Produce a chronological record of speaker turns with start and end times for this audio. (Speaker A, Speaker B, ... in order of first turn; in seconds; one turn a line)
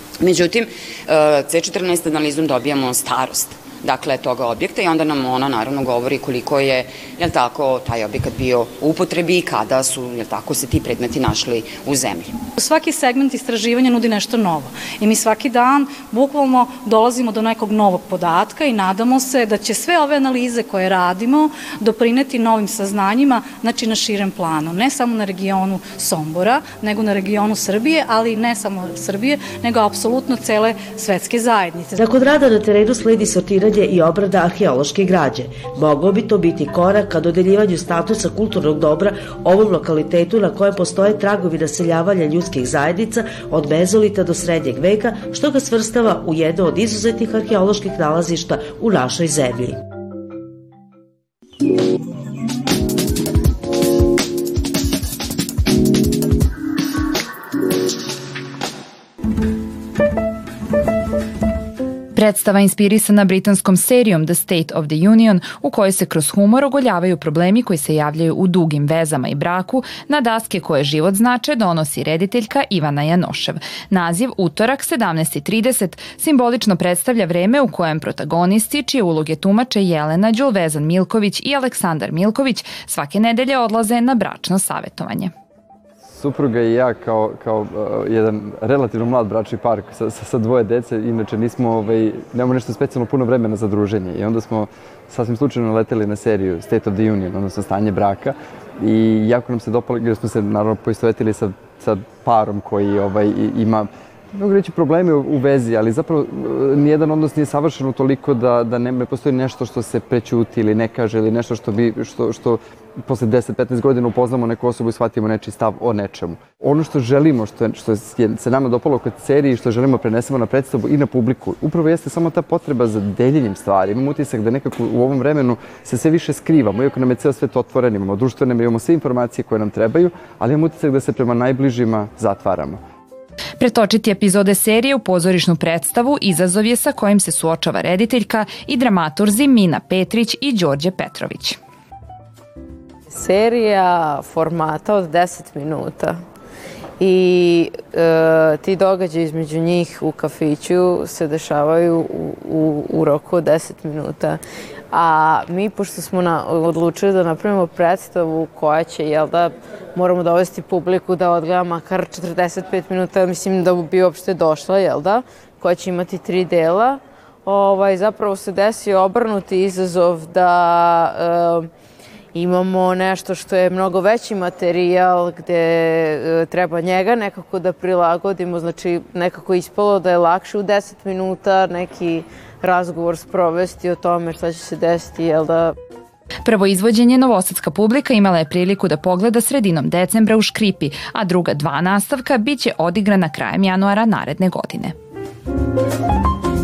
Speaker A: 0.2-12.3
Speaker B: 12.6-32.0
Speaker C: 32.0-49.8
Speaker D: 62.1-85.3
Speaker E: 86.0-132.8
Speaker D: 133.6-141.6
Speaker F: 143.1-146.2
Speaker F: 147.0-154.4
Speaker F: 154.9-171.7
Speaker F: 172.3-185.7
Speaker D: 186.4-194.9